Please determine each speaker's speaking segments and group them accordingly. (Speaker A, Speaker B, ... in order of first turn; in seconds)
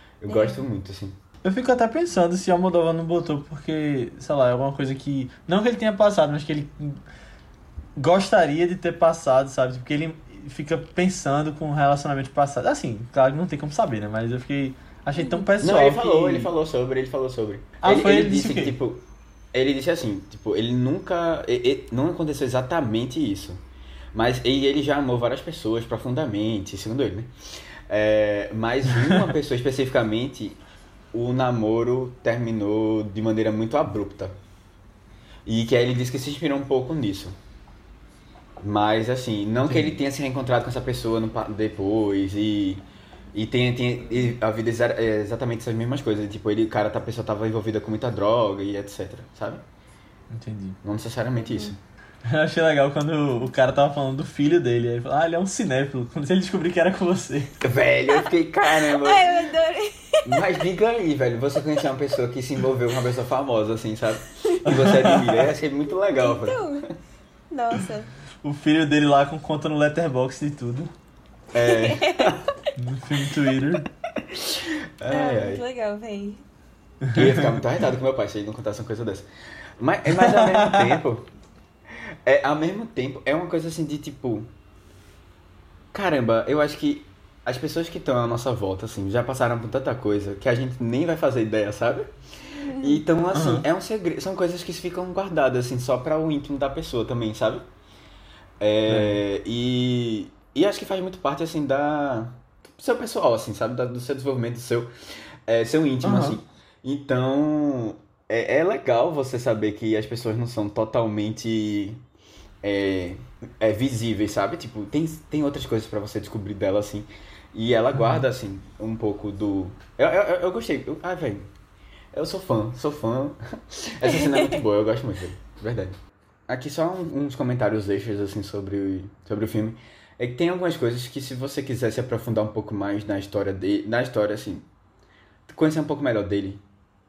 Speaker A: 0.2-1.2, 15.6-23.6, 24.1-27.3, 27.9-30.6, 31.1-34.4, 35.4-37.4, 38.6-42.8, 43.3-49.6, 50.8-51.8, 57.6-59.5, 60.2-66.8, 71.5-72.4, 74.2-75.6, 77.1-79.3, 79.8-81.3, 82.2-84.5, 85.9-92.1, 92.7-97.6, 98.6-104.9, 105.5-112.0, 112.6-121.5, 122.1-125.9, 126.5-134.7, 135.5-136.6
Speaker B: 0.3-0.6, 15.2-15.4, 51.4-51.7, 58.1-60.6, 66.1-66.9, 67.5-68.1, 71.6-72.4, 75.1-76.4, 92.6-93.0, 124.2-124.6
Speaker C: 1.4-7.0, 8.0-16.5, 17.8-18.8, 39.6-40.0, 50.3-50.8, 52.2-57.5, 64.6-65.2, 68.4-70.9, 72.8-73.9, 77.1-77.4, 80.2-81.0, 93.3-93.7, 98.9-99.2, 106.0-106.4, 118.0-118.2